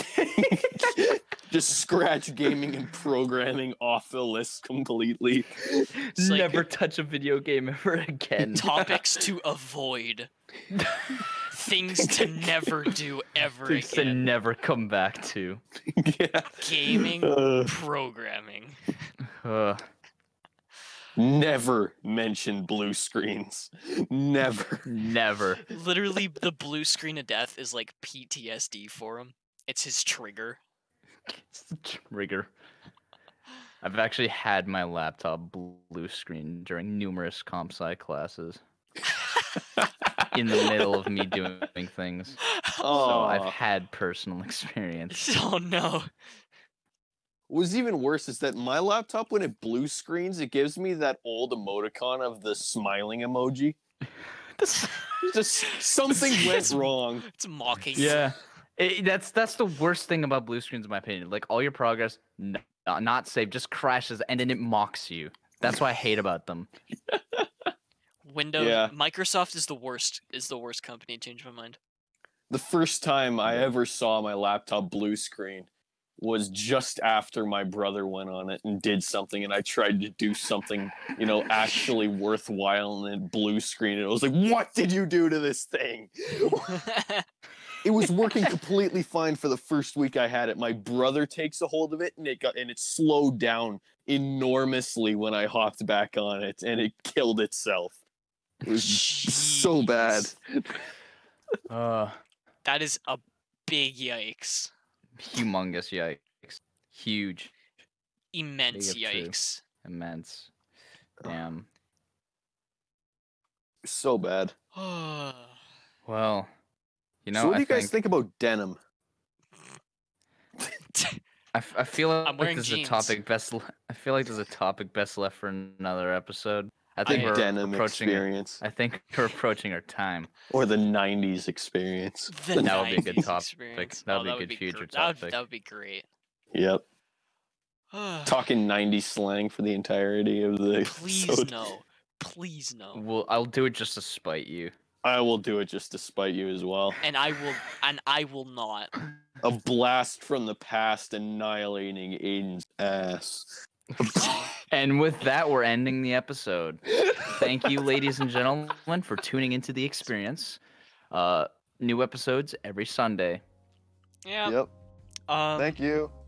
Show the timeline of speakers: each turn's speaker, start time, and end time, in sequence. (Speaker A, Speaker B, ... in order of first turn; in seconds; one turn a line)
Speaker A: 0.1-5.9
Speaker B: 6.0-8.9
Speaker C: 6.2-6.6
Speaker A: 8.5-9.0
Speaker C: 8.5-10.3
Speaker B: 10.7-11.3
Speaker C: 11.3-14.3
Speaker A: 12.0-12.7
Speaker B: 13.7-15.6
Speaker A: 15.9-17.7
Speaker C: 16.6-19.1
Speaker B: 19.4-19.8
Speaker A: 21.1-24.9
Speaker B: 24.9-25.6
Speaker C: 25.7-30.6
Speaker B: 31.3-32.5
Speaker B: 33.8-38.6
Speaker C: 39.1-39.6
Speaker B: 40.3-45.2
Speaker C: 42.4-42.9
Speaker A: 42.8-43.6
Speaker C: 45.1-46.1
Speaker A: 47.5-53.8
Speaker B: 54.6-55.1
Speaker A: 55.2-57.2
Speaker C: 56.1-58.3
Speaker B: 58.0-66.7
Speaker A: 67.1-67.7
Speaker C: 68.2-71.8
Speaker A: 68.6-68.9
Speaker A: 72.5-86.8
Speaker C: 86.7-87.2
Speaker A: 87.8-98.0
Speaker A: 98.6-100.8
Speaker C: 98.7-100.3
Speaker B: 101.7-102.2
Speaker C: 102.6-104.7
Speaker B: 105.2-107.5
Speaker C: 108.3-109.6
Speaker B: 108.7-109.3
Speaker B: 109.8-110.5
Speaker B: 111.2-111.7
Speaker A: 113.8-114.5
Speaker C: 114.7-115.5
Speaker B: 116.0-116.5
Speaker B: 117.2-117.9
Speaker A: 117.3-118.8
Speaker C: 120.9-121.2
Speaker B: 121.5-130.3
Speaker C: 122.2-123.2
Speaker C: 127.0-127.3
Speaker A: 127.0-128.6
Speaker A: 130.5-133.2
Speaker C: 132.3-136.1
Speaker B: 132.6-135.4
Speaker A: 136.5-136.8
Speaker C: 137.9-138.4
Speaker A: 138.2-141.5
Speaker C: 140.8-143.0
Speaker B: 142.9-144.7
Speaker A: 145.0-147.0
Speaker C: 147.0-148.9
Speaker A: 149.4-154.3
Speaker B: 154.6-160.6
Speaker B: 161.1-163.4
Speaker C: 164.2-164.6
Speaker A: 164.4-164.7
Speaker C: 165.3-165.8
Speaker A: 165.6-166.1